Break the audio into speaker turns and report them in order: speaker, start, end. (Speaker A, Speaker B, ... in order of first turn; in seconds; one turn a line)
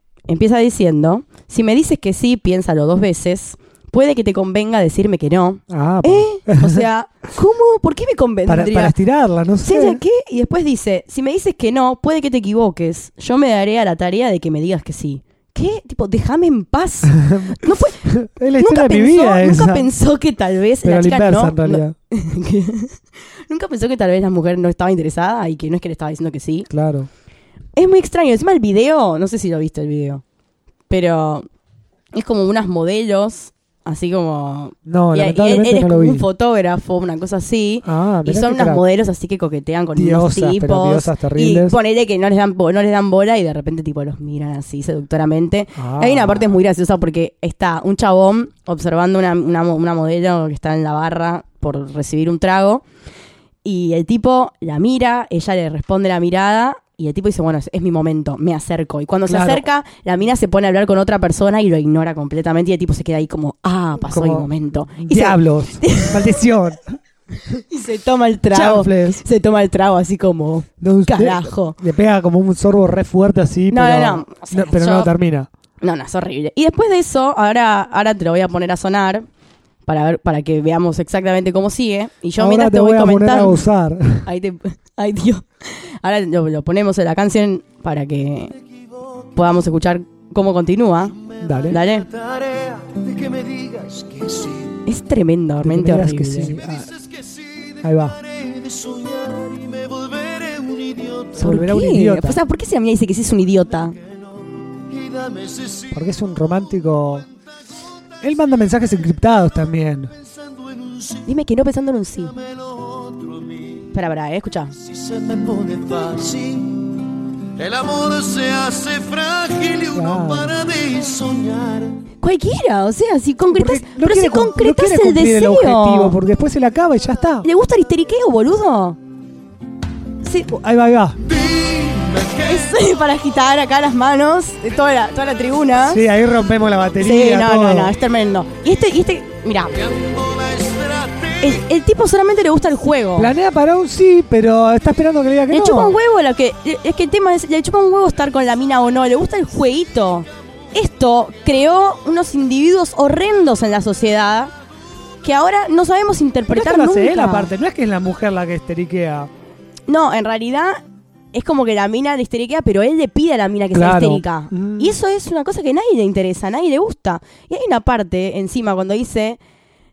Speaker A: 0.3-8.9
Speaker B: 5.7-6.8
Speaker B: 8.5-10.0
Speaker A: 9.6-18.1
Speaker B: 17.1-19.9
Speaker A: 18.6-26.7
Speaker B: 20.8-21.9
Speaker B: 26.7-27.1
Speaker A: 27.8-30.2
Speaker A: 30.9-31.5
Speaker A: 32.1-52.8
Speaker B: 34.9-36.2
Speaker B: 37.8-38.8
Speaker B: 40.0-41.8
Speaker B: 45.8-46.5
Speaker A: 53.6-66.2
Speaker B: 59.3-59.6
Speaker B: 64.1-67.0
Speaker A: 67.7-71.8
Speaker B: 68.5-69.2
Speaker B: 70.8-75.5
Speaker A: 73.7-75.1
Speaker A: 75.8-79.3
Speaker A: 79.9-83.6
Speaker B: 82.4-84.3
Speaker A: 84.2-88.5
Speaker A: 89.3-91.2
Speaker B: 91.4-91.8
Speaker A: 91.7-92.1
Speaker A: 94.9-96.5
Speaker B: 95.6-96.9
Speaker B: 97.8-98.2
Speaker B: 101.3-102.4
Speaker A: 101.4-104.0
Speaker B: 105.9-107.3
Speaker B: 108.2-110.1
Speaker A: 111.2-112.4
Speaker A: 113.9-114.8
Speaker C: 115.3-116.6
Speaker C: 117.8-119.9
Speaker B: 119.9-120.6
Speaker C: 120.7-121.7
Speaker A: 122.2-126.2
Speaker B: 123.5-127.5
Speaker A: 127.4-129.0
Speaker B: 130.3-131.2
Speaker A: 132.3-136.0
Speaker B: 135.8-137.9
Speaker A: 137.0-139.9
Speaker A: 141.4-143.3
Speaker B: 143.2-146.0
Speaker A: 145.5-154.5
Speaker A: 155.2-157.5
Speaker B: 156.5-159.3
Speaker A: 159.9-160.8
Speaker A: 161.3-169.4
Speaker B: 163.7-165.0